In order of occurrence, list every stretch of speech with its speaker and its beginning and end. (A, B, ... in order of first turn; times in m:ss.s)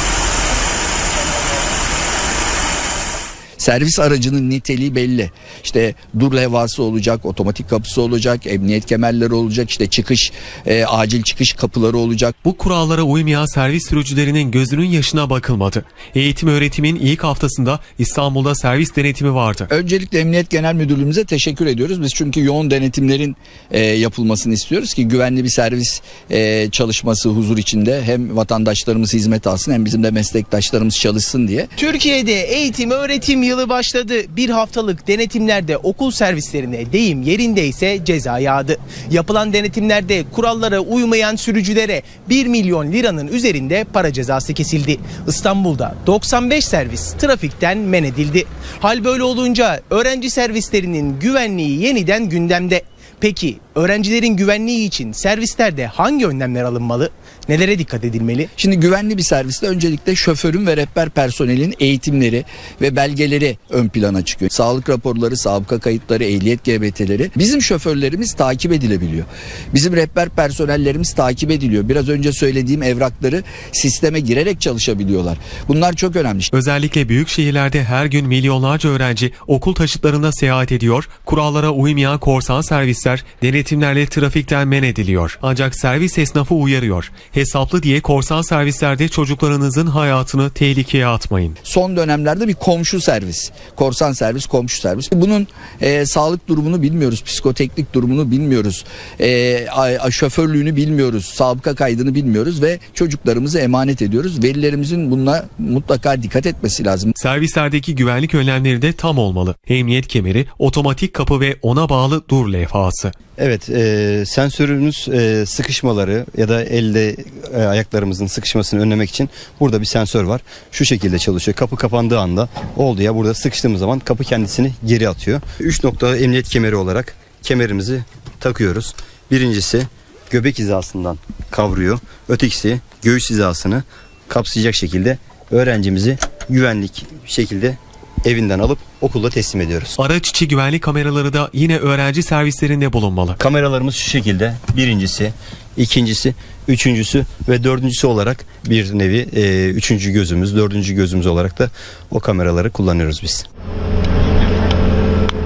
0:03.6-0:12.3 A
0:12.4-0:19.7 B
0:19.7-0:31.7 A
0:31.8-0:58.5 C
0:58.6-1:16.5 A
1:16.5-1:31.6 B
1:31.6-1:47.1 A
1:47.2-1:53.1 B
1:53.4-2:20.0 D
2:20.0-2:23.4 B
2:23.4-2:33.5 D